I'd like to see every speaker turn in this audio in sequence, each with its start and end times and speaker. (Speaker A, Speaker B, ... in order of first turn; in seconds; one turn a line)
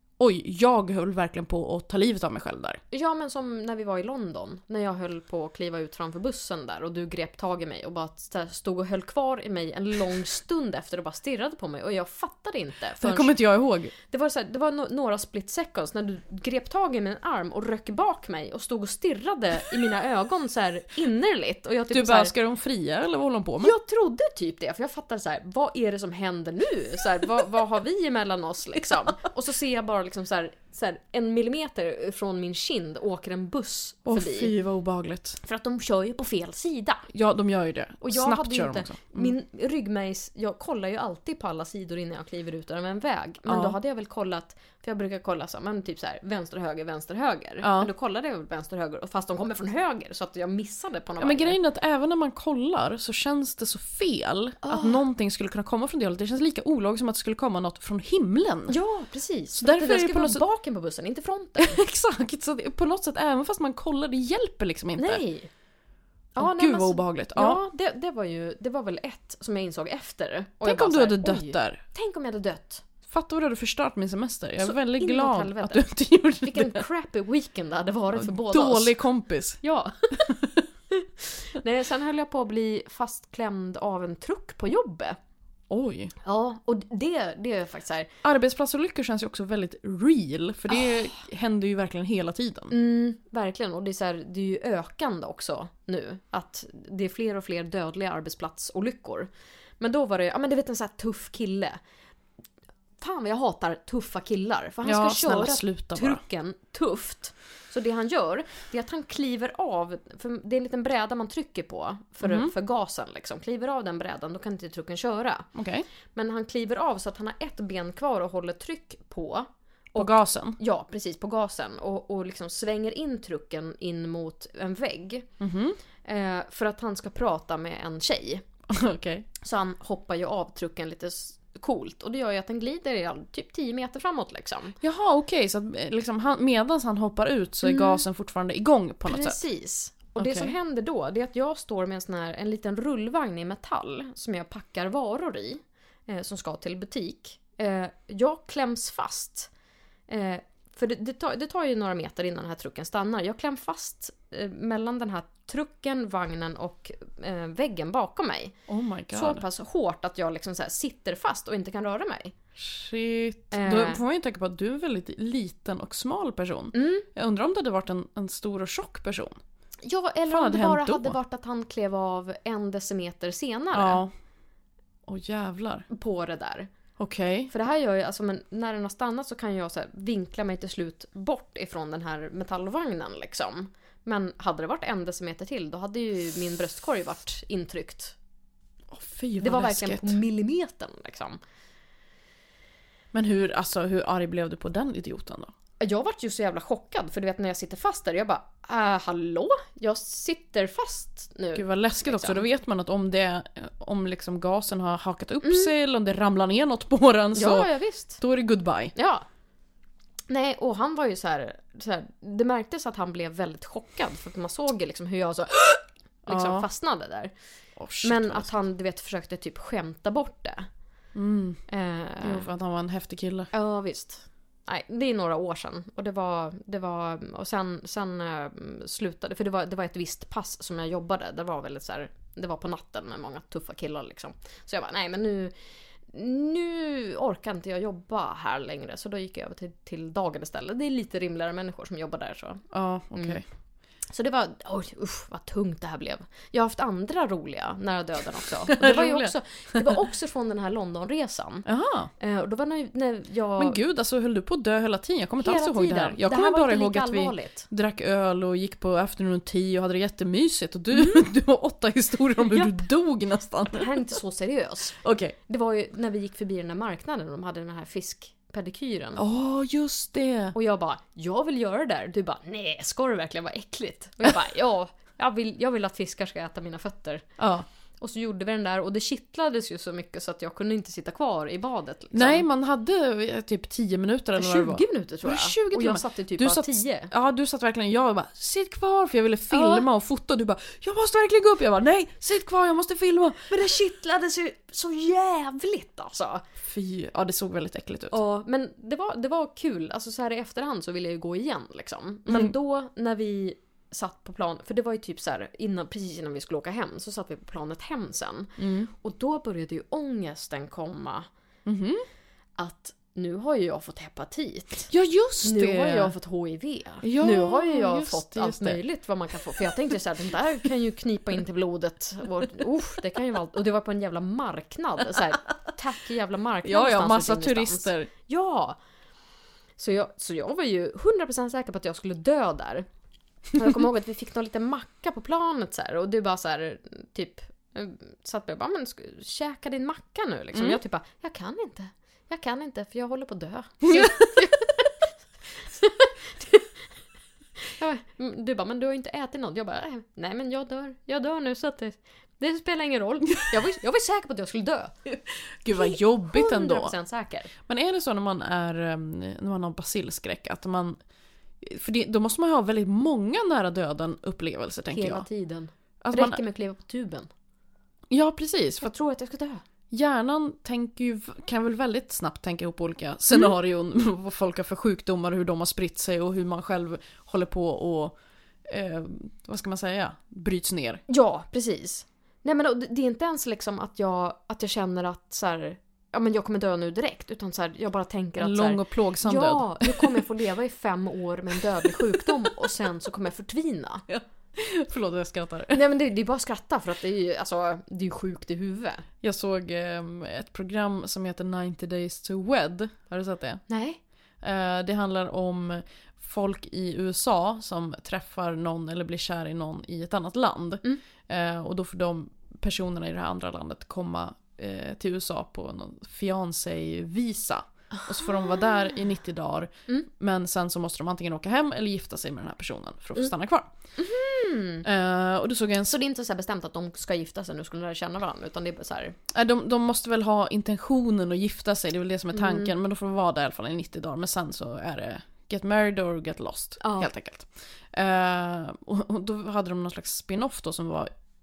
Speaker A: 0.2-2.8
Speaker B: 2.9-13.4
Speaker A: 13.0-13.9
Speaker B: 14.0-22.3
Speaker A: 21.9-23.7
Speaker B: 23.6-34.5
Speaker A: 34.1-35.4
Speaker B: 35.4-37.1
Speaker A: 37.1-39.3
Speaker B: 38.0-51.6
Speaker A: 43.5-43.8
Speaker A: 47.6-47.9
Speaker A: 51.2-58.8
Speaker B: 54.6-55.0
Speaker B: 58.7-61.8
Speaker A: 59.6-60.4
Speaker A: 61.6-65.2
Speaker B: 65.0-65.5
Speaker B: 66.3-72.8
Speaker A: 66.4-67.6
Speaker A: 70.6-71.8
Speaker A: 73.1-76.9
Speaker B: 74.6-75.9
Speaker B: 76.4-79.0
Speaker A: 78.1-79.6
Speaker B: 79.6-80.4
Speaker A: 80.3-80.6
Speaker B: 80.9-85.2
Speaker A: 85.7-86.1
Speaker B: 86.2-88.1
Speaker A: 88.2-92.7
Speaker B: 92.7-101.8
Speaker B: 103.0-115.5
Speaker A: 104.8-106.2
Speaker A: 112.2-112.5
Speaker A: 115.5-115.8
Speaker B: 116.1-125.3
Speaker A: 120.0-120.6
Speaker A: 125.4-125.8
Speaker B: 126.0-128.4
Speaker A: 128.7-129.3
Speaker B: 129.4-134.8
Speaker A: 134.8-139.4
Speaker B: 137.6-138.1
Speaker B: 139.1-149.5
Speaker A: 140.2-140.6
Speaker B: 150.1-158.5
Speaker A: 158.7-159.4
Speaker B: 159.1-162.3
Speaker A: 162.6-169.4
Speaker B: 163.5-164.0
Speaker B: 166.7-167.1
Speaker B: 169.8-174.0
Speaker A: 170.3-171.2
Speaker A: 173.7-174.1
Speaker A: 175.1-175.8
Speaker B: 175.9-176.7
Speaker A: 177.0-177.5
Speaker B: 177.5-188.2
Speaker A: 188.9-190.2
Speaker B: 189.4-191.4
Speaker A: 193.1-195.5
Speaker B: 195.8-202.4
Speaker A: 201.6-208.9
Speaker B: 205.4-205.7
Speaker B: 207.3-208.2
Speaker B: 208.9-209.2
Speaker B: 210.3-217.3
Speaker A: 216.3-216.7
Speaker A: 217.8-218.6
Speaker B: 218.0-220.7
Speaker A: 221.2-221.6
Speaker B: 221.7-222.5
Speaker A: 222.2-223.5
Speaker B: 223.5-235.6
Speaker B: 236.1-242.6
Speaker A: 242.7-243.4
Speaker B: 243.2-243.4
Speaker B: 244.1-251.7
Speaker A: 248.7-249.9
Speaker A: 251.7-252.1
Speaker B: 252.2-253.8
Speaker A: 253.6-264.0
Speaker B: 255.4-257.7
Speaker B: 260.9-261.3
Speaker B: 262.4-262.9
Speaker B: 263.7-269.2
Speaker A: 265.0-265.4
Speaker A: 269.2-270.6
Speaker B: 270.5-277.2
Speaker A: 277.4-277.6
Speaker B: 278.0-282.5
Speaker A: 282.1-293.7
Speaker B: 284.4-287.1
Speaker B: 289.5-289.9
Speaker B: 293.5-296.4
Speaker A: 296.6-298.2
Speaker B: 298.1-311.3
Speaker A: 302.3-302.5
Speaker A: 308.6-308.9
Speaker A: 311.7-312.0
Speaker B: 312.6-314.9
Speaker A: 314.9-316.1
Speaker B: 315.4-328.8
Speaker A: 317.0-318.8
Speaker A: 326.6-328.1
Speaker B: 329.8-332.9
Speaker B: 333.5-345.0
Speaker A: 340.5-340.8
Speaker A: 343.9-344.3
Speaker B: 345.6-346.7
Speaker B: 347.6-355.1
Speaker A: 355.5-356.9
Speaker B: 355.7-357.5
Speaker A: 357.7-361.0
Speaker A: 361.6-365.3
Speaker B: 364.9-367.3
Speaker A: 366.0-366.4
Speaker A: 368.1-368.9
Speaker B: 368.8-369.6
Speaker A: 369.9-378.2
Speaker A: 378.7-381.0
Speaker B: 381.1-394.1
Speaker A: 388.4-390.3
Speaker A: 391.9-392.7
Speaker A: 394.1-395.8
Speaker B: 395.7-399.1
Speaker A: 399.2-403.6
Speaker B: 403.7-404.0
Speaker A: 404.4-423.7
Speaker B: 424.0-424.9
Speaker A: 424.9-425.9
Speaker B: 425.8-429.2
Speaker A: 429.3-441.1
Speaker B: 432.3-432.7
Speaker B: 436.8-437.1